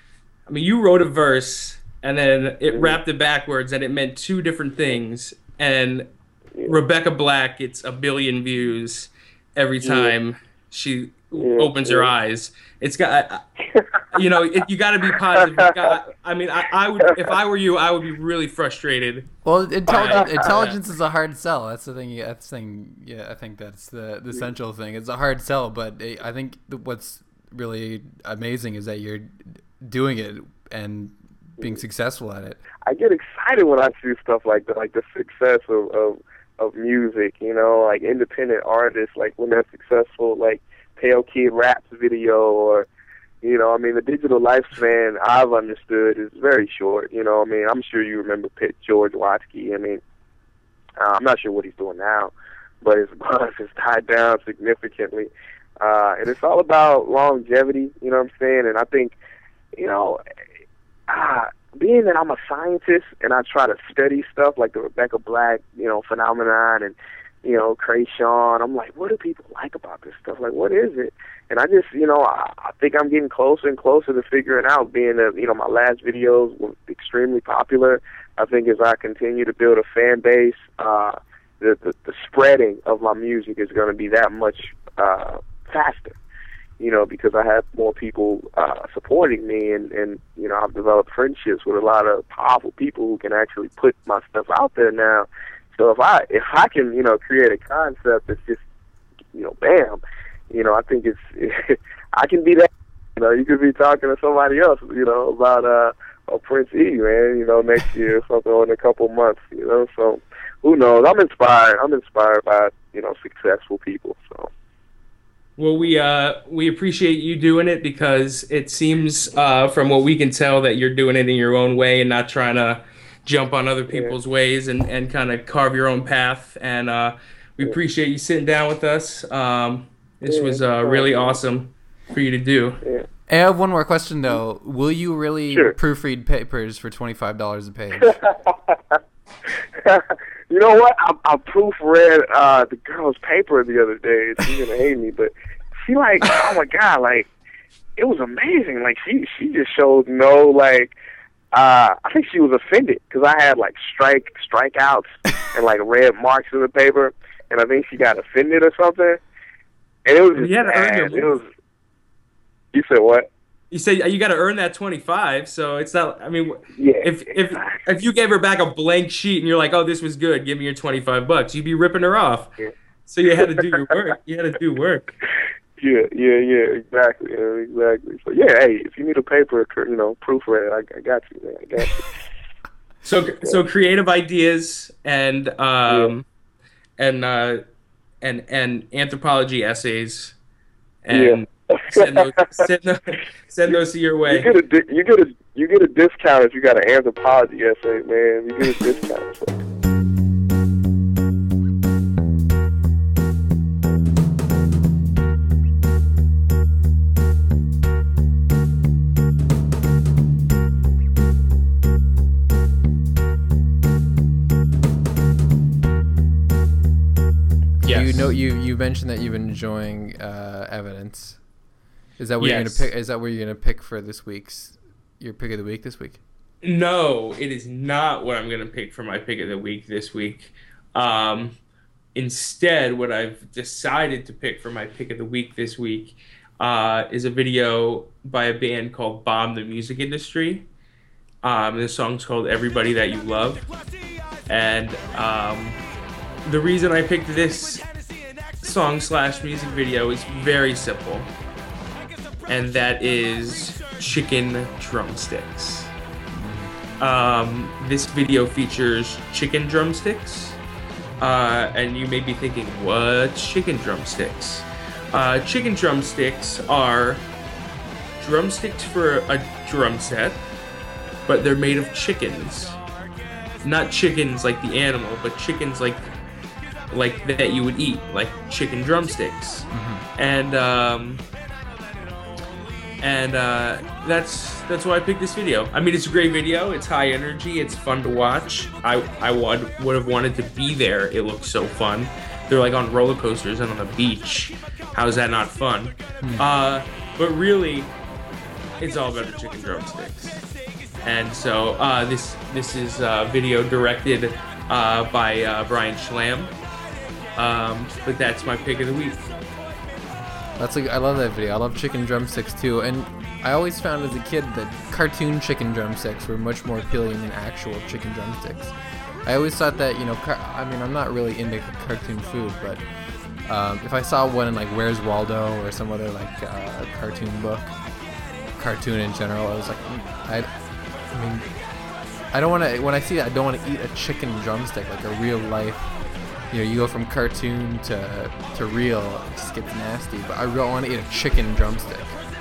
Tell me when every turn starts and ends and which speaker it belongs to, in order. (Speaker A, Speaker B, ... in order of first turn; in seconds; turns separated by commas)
Speaker A: 0.5-6.1, Speaker B: 2.7-3.0, Speaker A: 6.7-13.4, Speaker B: 9.8-10.2, Speaker B: 11.4-12.1, Speaker B: 13.7-14.2, Speaker A: 14.1-19.3, Speaker B: 15.3-15.9, Speaker C: 19.4-32.6, Speaker A: 19.9-20.8, Speaker B: 32.8-42.9, Speaker B: 43.4-50.0, Speaker B: 51.0-59.1, Speaker B: 59.7-60.2, Speaker B: 61.1-86.2, Speaker B: 86.8-98.6, Speaker B: 99.3-114.5, Speaker A: 115.6-132.8, Speaker B: 123.9-124.1, Speaker B: 130.2-131.4, Speaker C: 133.3-138.2, Speaker B: 135.5-135.8, Speaker B: 138.0-145.3, Speaker B: 145.8-147.3, Speaker B: 147.9-150.9, Speaker B: 151.5-159.2, Speaker B: 160.1-161.5, Speaker A: 160.3-161.4, Speaker B: 162.7-163.3, Speaker A: 163.7-172.5, Speaker B: 166.7-167.8, Speaker A: 173.1-175.1, Speaker B: 175.8-182.1, Speaker A: 183.0-186.2, Speaker B: 185.9-186.1, Speaker A: 187.0-187.6, Speaker A: 188.2-190.3, Speaker A: 191.0-194.5, Speaker B: 191.1-192.7, Speaker B: 194.2-199.6, Speaker A: 217.8-218.3, Speaker C: 217.8-221.4, Speaker C: 222.2-226.2, Speaker A: 222.4-222.9, Speaker A: 226.6-231.6, Speaker A: 232.1-240.7, Speaker A: 241.4-243.7, Speaker A: 244.5-245.8, Speaker A: 246.4-247.8, Speaker A: 248.6-251.3, Speaker A: 252.5-255.9, Speaker C: 256.3-256.7, Speaker A: 257.0-260.6, Speaker A: 261.2-267.2, Speaker A: 268.2-270.4, Speaker A: 271.2-272.8, Speaker A: 273.6-276.1, Speaker A: 276.9-281.2, Speaker C: 279.7-280.1, Speaker A: 283.0-297.9, Speaker C: 296.2-296.5, Speaker A: 298.8-300.4, Speaker A: 301.0-306.5, Speaker A: 307.4-309.2, Speaker C: 310.6-318.7, Speaker C: 319.2-322.8, Speaker C: 323.4-327.7, Speaker C: 328.6-330.5, Speaker C: 331.1-331.5, Speaker C: 332.3-335.9, Speaker C: 336.5-342.1